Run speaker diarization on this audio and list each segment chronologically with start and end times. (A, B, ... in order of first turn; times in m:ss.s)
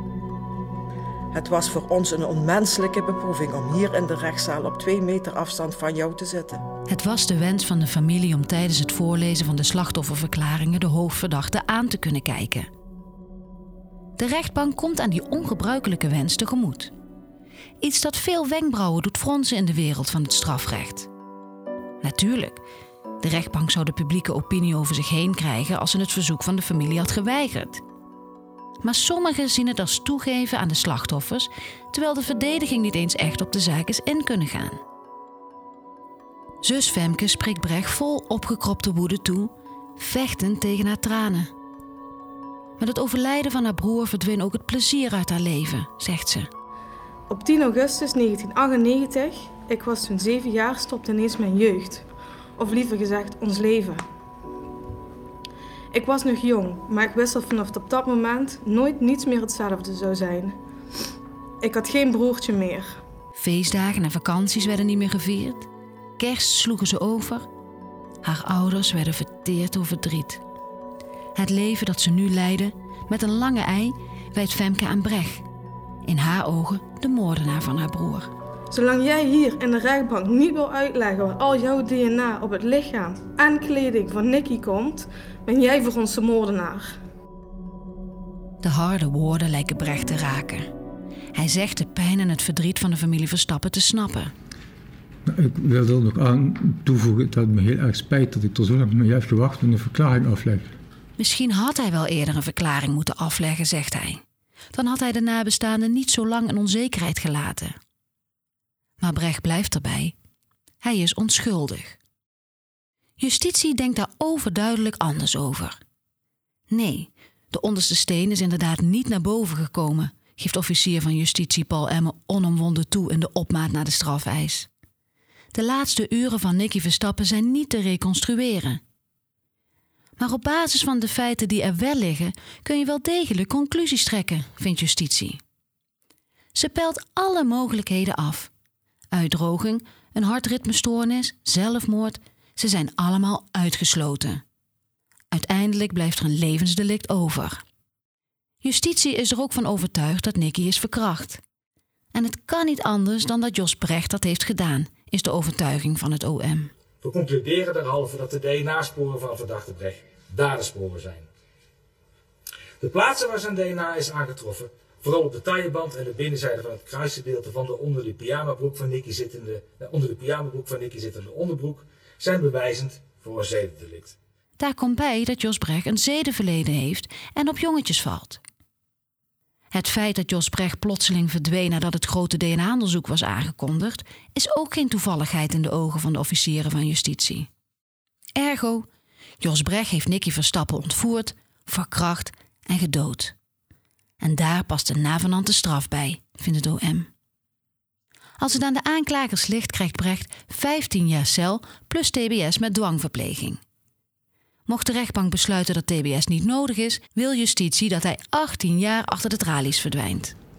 0:01.3-0:06.6 A
0:06.9-0:12.7 B
0:14.2-0:16.9 B
0:17.8-0:21.1 B
0:22.0-0:22.6 B
0:23.2-0:27.8 B
0:28.8-0:34.8 B
0:36.6-0:41.5 B
0:42.8-0:46.5 B
0:47.3-0:52.1 C
0:52.6-0:54.0 C
0:55.9-1:00.6 C
1:01.6-1:03.0 C
1:03.3-1:07.5 B
1:08.2-1:10.4 B
1:11.4-1:15.5 B
1:16.0-1:18.3 B
1:18.7-1:27.0 C
1:28.6-1:30.7 B
1:31.4-1:34.3 B
1:35.3-1:40.7 D
1:41.2-1:44.2 B
1:44.7-1:47.8 B
1:49.0-1:50.2 B
1:50.8-1:52.0 B
1:53.2-1:55.8 B
1:56.7-2:04.7 B
2:05.5-2:08.8 B
2:10.2-2:15.4 B
2:16.6-2:18.5 B
2:19.1-2:24.4 B
2:25.3-2:27.6 B
2:28.6-2:31.4 B
2:32.1-2:36.7 B
2:37.0-2:41.3 E
2:42.8-2:54.2 E
2:54.6-2:58.4 B
2:59.7-3:07.5 B
3:08.4-3:08.9 B
3:09.4-3:13.4 B
3:14.2-3:17.1 B
3:18.4-3:23.6 B
3:24.7-3:30.4 B